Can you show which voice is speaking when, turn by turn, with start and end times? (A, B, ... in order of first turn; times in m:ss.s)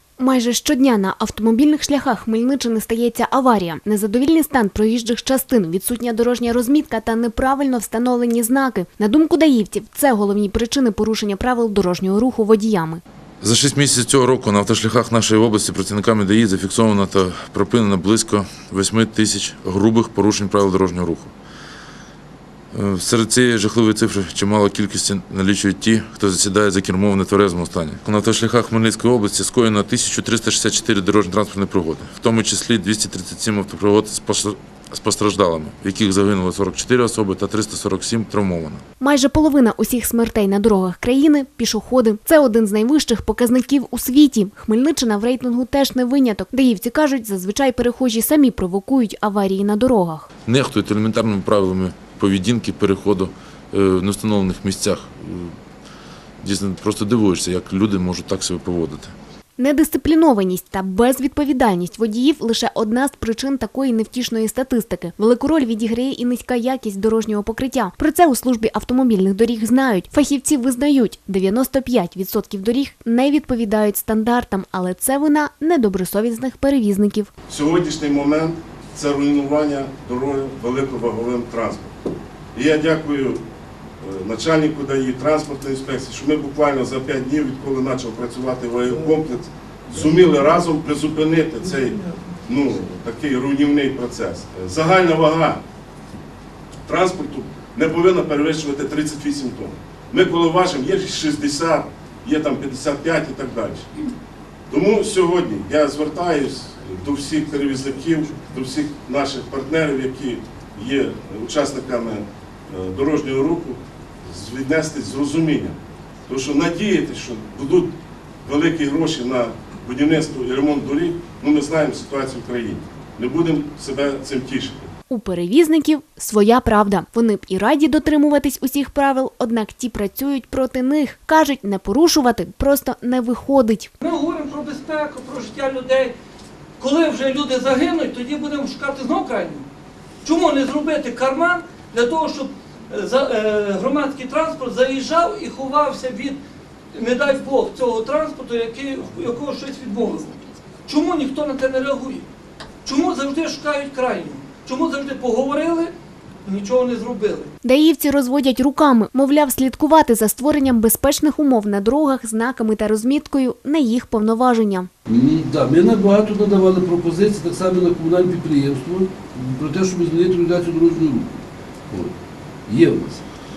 0:00.2-0:13.0 A
0:13.4-0:21.3 B
0:22.7-0:38.8 B
0:39.0-0:50.3 A
0:50.5-0:55.6 B
0:56.4-0:59.2 B
0:59.6-1:17.3 A
1:17.5-1:21.9 C
1:22.5-1:23.4 C
1:24.0-1:35.6 C
1:36.9-1:43.9 C
1:44.7-2:04.9 C
2:05.1-2:13.9 A
2:14.0-2:16.1 D
2:16.8-2:19.6 D
2:20.2-2:26.4 D
2:26.9-2:32.2 D
2:32.8-2:35.9 D
2:36.4-2:37.5 D
2:37.6-2:44.9 A
2:45.1-2:52.1 E
2:52.7-2:53.2 E